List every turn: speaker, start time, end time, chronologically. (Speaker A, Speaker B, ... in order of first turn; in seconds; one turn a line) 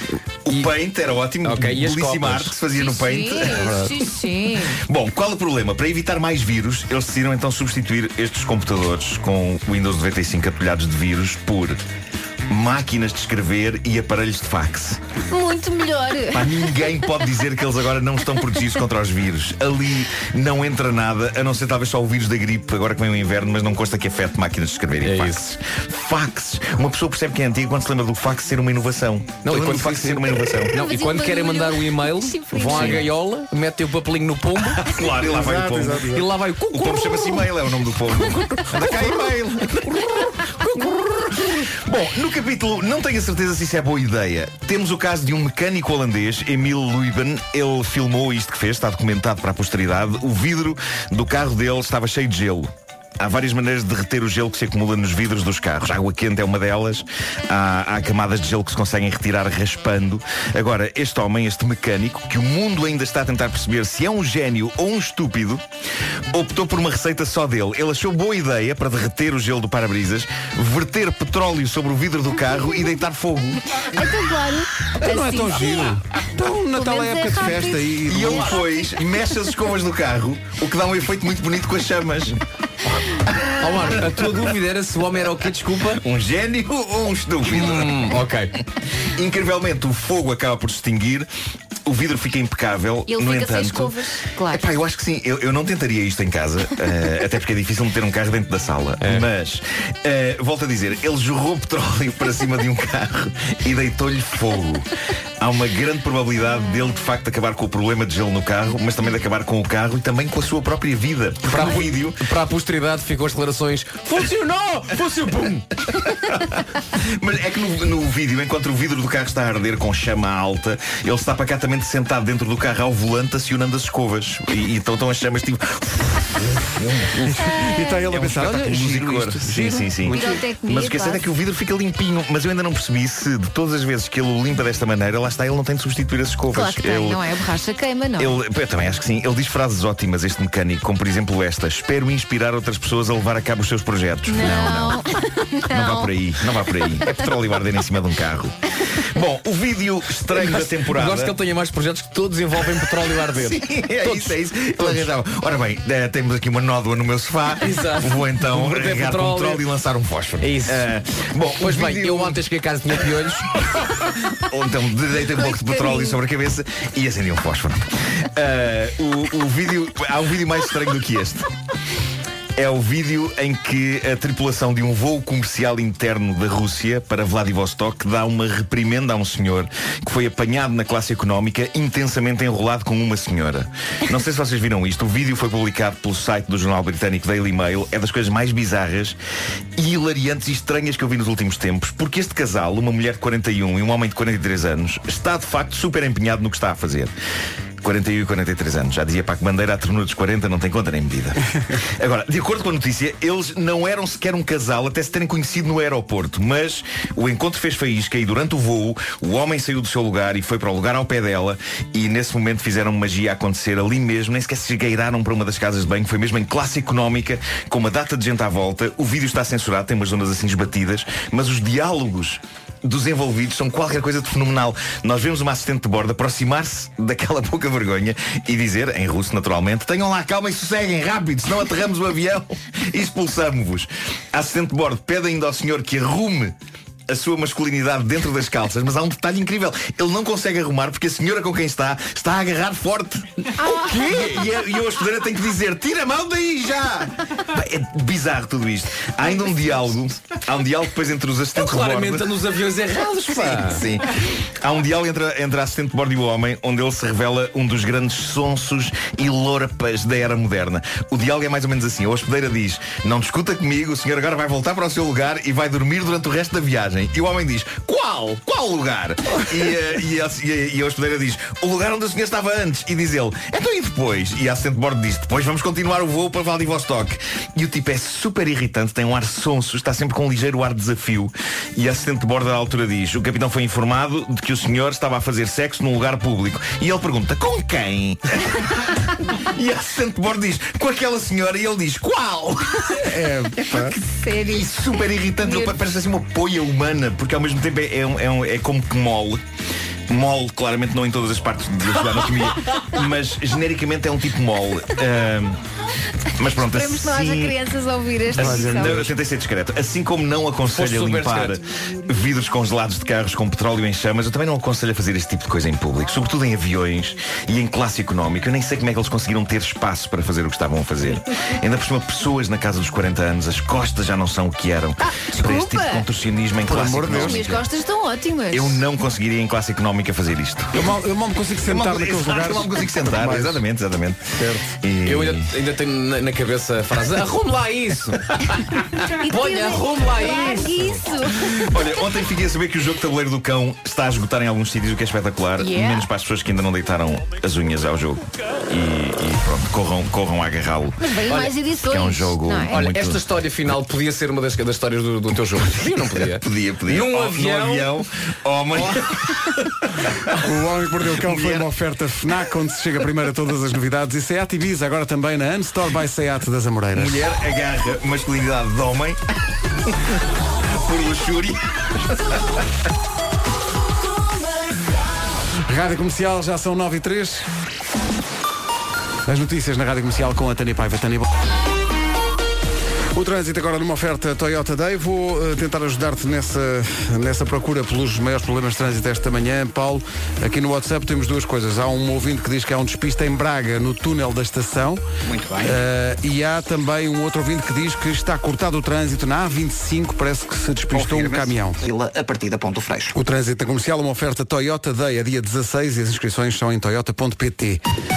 Speaker A: 0.4-4.0
Speaker B: 1.4-2.6
Speaker C: 2.7-4.8
Speaker B: 3.5-3.9
Speaker A: 4.7-11.8
Speaker A: 12.5-15.0
Speaker C: 15.3-16.7
Speaker A: 16.3-30.7
Speaker B: 25.0-25.5
Speaker B: 29.4-35.0
Speaker C: 30.7-33.0
Speaker A: 32.8-33.0
Speaker A: 34.8-65.6
Speaker D: 35.2-36.3
Speaker B: 36.1-37.5
Speaker A: 66.3-73.8
Speaker C: 73.9-76.0
Speaker D: 75.0-78.6
Speaker C: 76.7-78.8
Speaker A: 78.1-82.4
Speaker B: 83.6-86.0
Speaker A: 86.0-88.2
Speaker B: 87.4-88.5
Speaker A: 89.0-91.3
Speaker A: 91.8-94.0
Speaker C: 93.1-94.7
Speaker A: 94.5-104.9
Speaker B: 99.0-99.3
Speaker A: 105.4-112.2
Speaker B: 111.5-115.7
Speaker A: 116.1-127.4
Speaker D: 127.1-130.4
Speaker C: 127.6-127.9
Speaker A: 128.1-137.2
Speaker C: 130.1-131.2
Speaker C: 136.5-138.4
Speaker A: 138.2-145.0
Speaker C: 144.3-146.1
Speaker A: 145.7-151.3
Speaker B: 150.3-155.1
Speaker A: 153.3-162.4
Speaker B: 157.6-159.6
Speaker B: 160.4-160.9
Speaker B: 161.6-163.7
Speaker A: 164.4-171.5
Speaker C: 165.5-166.2
Speaker A: 172.6-189.2
Speaker A: 189.8-197.1
Speaker A: 197.8-236.5
Speaker A: 237.1-252.4
Speaker C: 243.6-244.3
Speaker B: 244.1-244.4
Speaker B: 251.5-253.8
Speaker A: 253.3-293.1
Speaker D: 293.0-294.0
Speaker A: 293.6-299.4
Speaker C: 293.9-294.7
Speaker C: 295.4-295.8
Speaker A: 300.1-305.6
Speaker A: 306.4-307.6
Speaker C: 306.6-309.0
Speaker A: 308.3-327.6
Speaker D: 308.3-309.1
Speaker B: 310.7-311.6
Speaker C: 325.0-326.1
Speaker D: 326.6-327.5
Speaker C: 327.2-328.8
Speaker A: 328.5-330.8
Speaker D: 330.7-333.6
Speaker A: 331.6-334.2
Speaker D: 334.3-334.7
Speaker A: 334.8-335.5
Speaker B: 335.0-340.9
Speaker C: 339.2-341.7
Speaker A: 341.6-351.0
Speaker C: 345.6-346.1
Speaker C: 351.0-352.8
Speaker B: 351.3-351.5
Speaker A: 351.7-353.2
Speaker B: 352.7-358.0
Speaker A: 356.1-360.4
Speaker D: 360.4-367.2
Speaker A: 361.1-361.7
Speaker A: 366.9-369.2
Speaker A: 369.9-370.2
Speaker A: 370.7-372.4
Speaker D: 375.6-377.5
Speaker D: 379.2-381.3
Speaker D: 383.1-395.0
Speaker E: 395.2-395.8
Speaker D: 395.6-401.8
Speaker E: 400.9-403.1
Speaker D: 403.1-407.8